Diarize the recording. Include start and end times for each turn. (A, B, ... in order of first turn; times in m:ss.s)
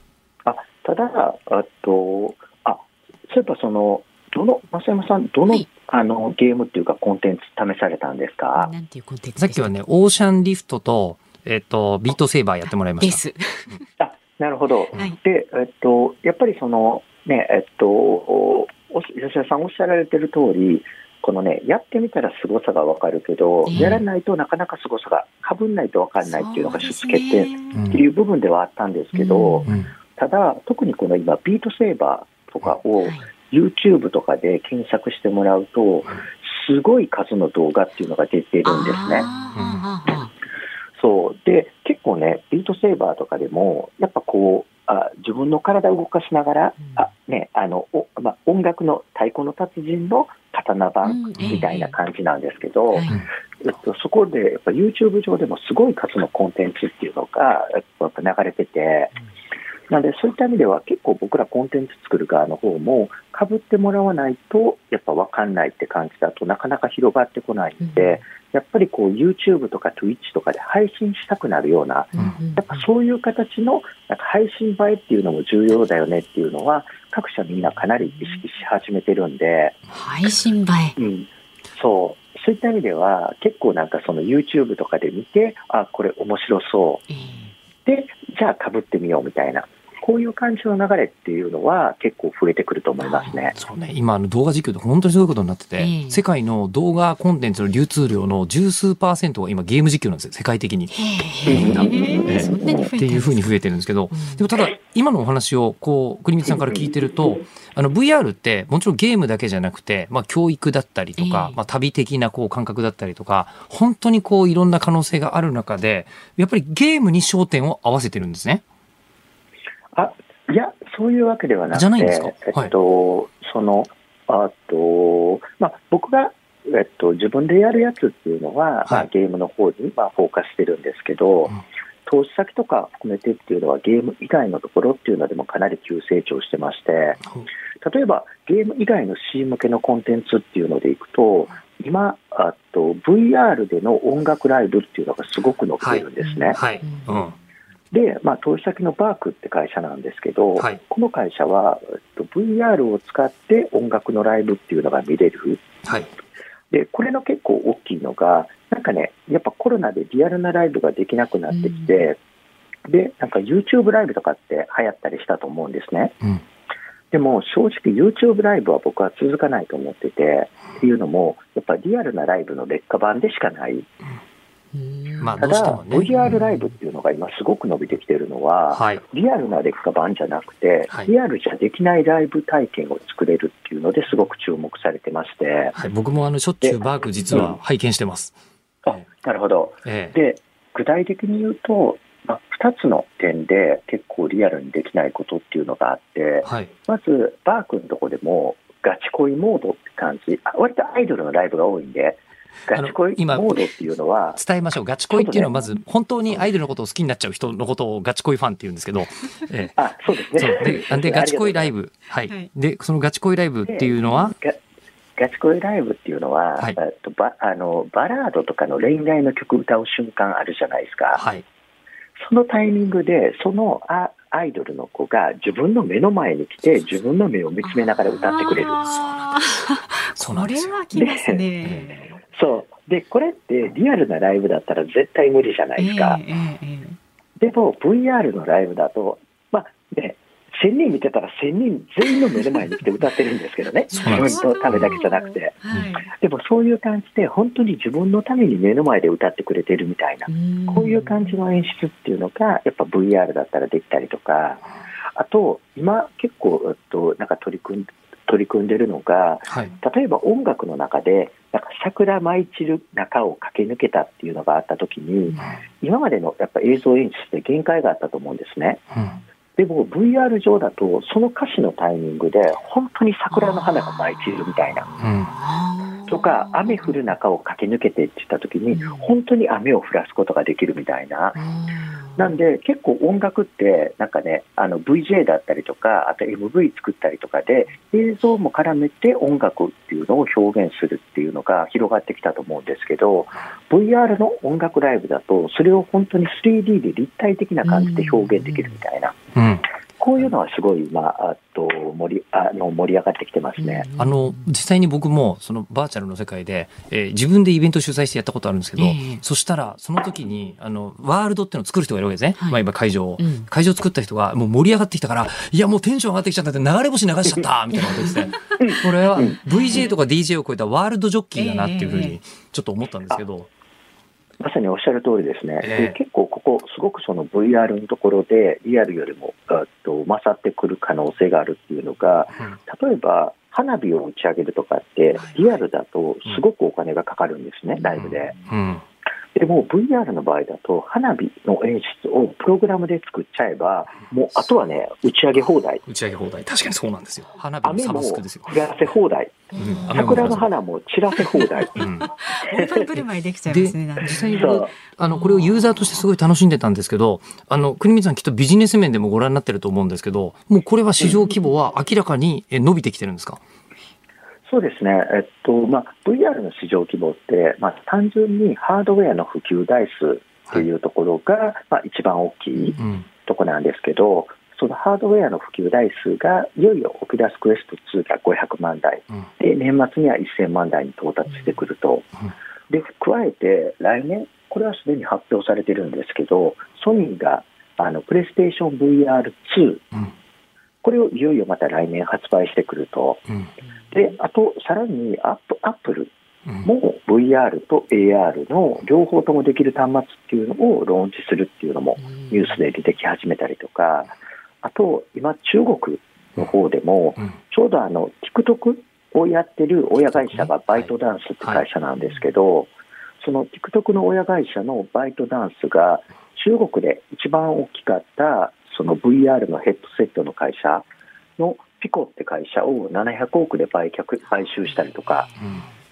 0:00.4-0:08.7 A
0:08.6-0:09.8 B
0:09.4-0:13.2 C
0:13.0-0:13.7 B
0:14.0-0:39.3 A
0:23.7-0:24.0 B
0:23.7-0:24.0 C
0:26.4-0:27.7 B
0:27.7-0:28.0 C
0:29.1-0:29.8 B
0:33.0-0:33.3 B
0:38.6-0:40.3 B
0:39.6-0:39.8 C
0:41.0-0:53.1 A
0:51.0-0:51.9 B
0:53.6-0:59.1 A
0:59.9-1:19.8 A
1:07.8-1:08.2 B
1:12.1-1:12.9 B
1:19.9-1:21.0 B
1:21.0-1:27.0 A
1:27.1-1:27.5 B
1:27.8-1:33.6 A
1:33.0-1:33.5 B
1:33.6-1:40.9 C
1:35.8-1:36.2 B
1:40.9-1:43.5 B
1:41.5-1:42.9 A
1:41.5-1:58.6 C
1:44.1-1:44.5 B
1:46.6-1:46.9 A
1:51.2-1:51.6 B
1:59.9-2:17.2 A
2:01.7-2:02.7 C
2:17.8-2:26.6 A
2:25.8-2:27.4 C
2:26.2-2:27.1 B
2:27.9-2:35.6 A
2:35.8-2:36.1 C
2:36.7-2:42.2 A
2:41.5-2:41.9 B
2:42.9-2:46.2 A
2:47.1-2:53.9 A
2:54.8-2:55.9 B
2:55.2-2:56.3 C
2:55.4-3:05.7 A
2:58.7-2:59.0 C
3:05.8-3:08.4 C
3:08.9-3:24.4 A
3:09.8-3:10.2 C
3:16.4-3:16.7 C
3:22.7-3:23.7 C
3:24.4-3:29.8 C
3:25.1-3:25.7 A
3:29.8-3:31.7 A
3:30.4-3:34.4 C
3:33.7-3:34.6 A
3:35.2-3:41.2 A
3:41.2-3:41.4 C
3:42.2-3:48.8 A
3:48.1-3:52.2 B
3:50.2-3:50.8 C
3:50.9-3:51.4 A
3:52.3-3:56.2 A
3:55.8-3:57.0 B
3:57.4-4:05.6 A
4:03.9-4:06.1 B
4:04.0-4:04.4 C
4:06.1-4:14.6 A
4:10.3-4:11.3 B
4:15.2-4:28.8 A
4:29.6-4:34.9 A
4:35.0-4:35.3 C
4:35.2-4:36.9 B
4:36.1-4:41.4 A
4:38.7-4:39.1 B
4:41.4-4:42.4 B
4:42.2-4:59.2 A
4:57.6-4:58.6 B
4:59.4-4:59.6 C
5:00.0-5:03.9 A
5:03.6-5:04.4 B
5:04.0-5:23.5 C
5:08.8-5:09.2 B
5:13.2-5:13.5 B
5:18.6-5:19.4 A
5:19.4-5:19.9 B
5:21.4-5:22.2 B
5:24.4-5:38.4 A
5:25.6-5:26.0 C
5:38.0-5:38.8 C
5:39.4-5:45.8 A
5:45.9-5:48.5 C
5:47.6-5:51.9 A
5:49.6-5:50.5 C
5:51.8-5:52.1 C
5:51.8-5:55.7 B
5:52.6-5:52.8 A
5:53.5-6:03.4 C
5:54.4-5:54.7 A
6:04.5-6:22.1 A
6:12.8-6:13.1 C
6:22.7-6:29.8 A
6:30.8-6:33.2 A
6:33.9-6:36.1 A
6:36.6-6:52.7 A
6:42.0-6:42.3 B
6:50.3-6:50.9 C
6:53.2-7:00.9 A
7:01.4-7:05.3 A
7:05.2-7:05.7 B